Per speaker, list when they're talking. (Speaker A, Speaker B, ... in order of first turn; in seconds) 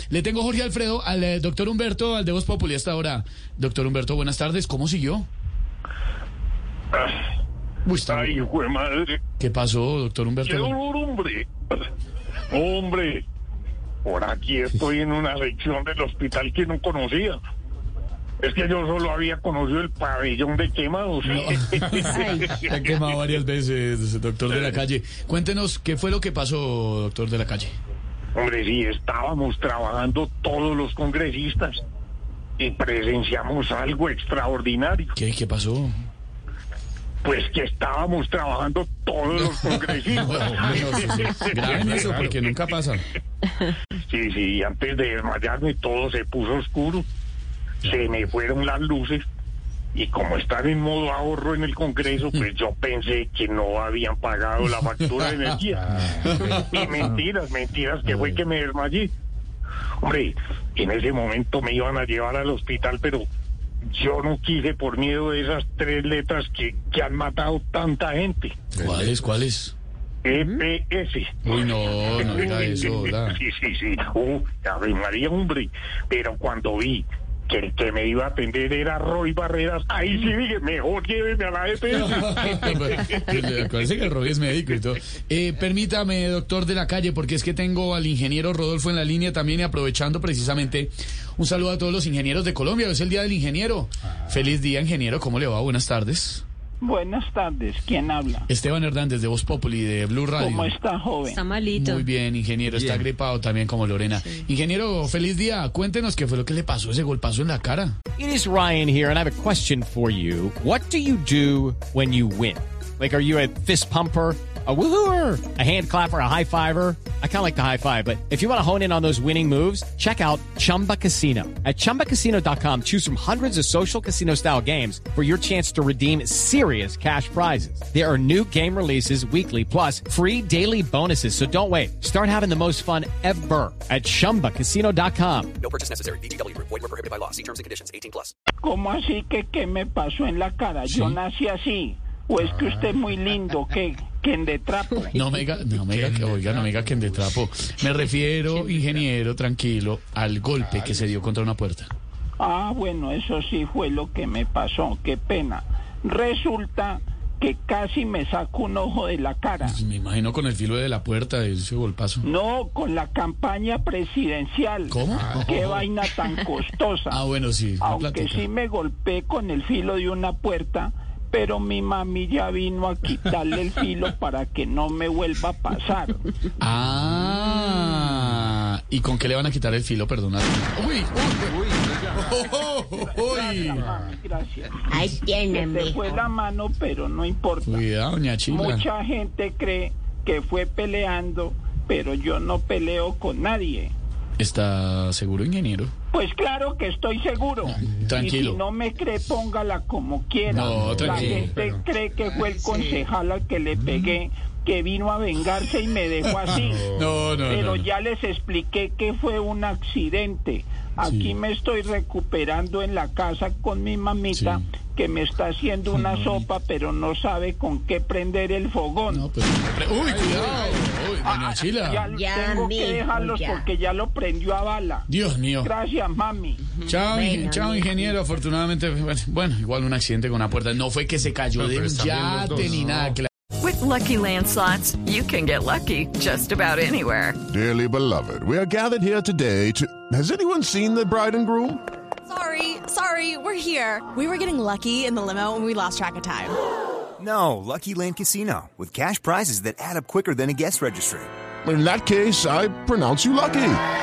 Speaker A: 0.1-5.3, 7.8-8.4, 9.4-10.7, 21.2-27.8, 35.1-36.0, 39.5-43.0, 55.0-55.5, 56.1-56.6, 68.8-69.7, 71.5-73.4, 81.9-96.4, 98.5-100.7, 101.7-107.9, 140.9-141.2, 145.1-151.9, 159.6-162.2, 164.9-165.8, 167.1-168.4, 176.6-183.9, 187.6-188.8, 194.4-195.9, 197.9-198.6, 200.5-201.5, 206.4-207.9, 211.0-211.3, 214.3-214.6, 216.0-216.4, 219.1-222.1, 225.1-225.7, 226.8-233.3
Speaker B: 6.9-7.2, 8.1-9.2, 10.4-11.5, 12.5-13.2, 14.0-17.4, 18.4-22.9, 28.3-31.8, 32.6-35.1, 37.2-42.1, 44.1-47.0, 47.8-49.2, 49.9-59.1, 60.0-63.2, 63.9-68.6, 70.2-83.4
Speaker C: 68.8-69.1, 220.2-220.7, 231.6-233.2, 237.5-241.8, 251.6-253.8
Speaker D: 96.8-98.5, 100.4-101.4, 138.6-145.3, 152.4-159.8, 162.2-167.2, 167.8-176.2, 183.1-184.9, 185.5-187.8, 188.5-193.9, 196.1-206.9, 207.4-219.3, 221.2-225.1, 225.6-226.7
Speaker E: 101.4-101.7, 233.6-237.4
Speaker F: 108.2-135.5
Speaker G: 135.6-138.3
Speaker H: 184.9-186.2, 202.7-203.0, 222.1-223.7, 226.9-228.1
Speaker I: 242.3-246.6
Speaker J: 247.2-251.3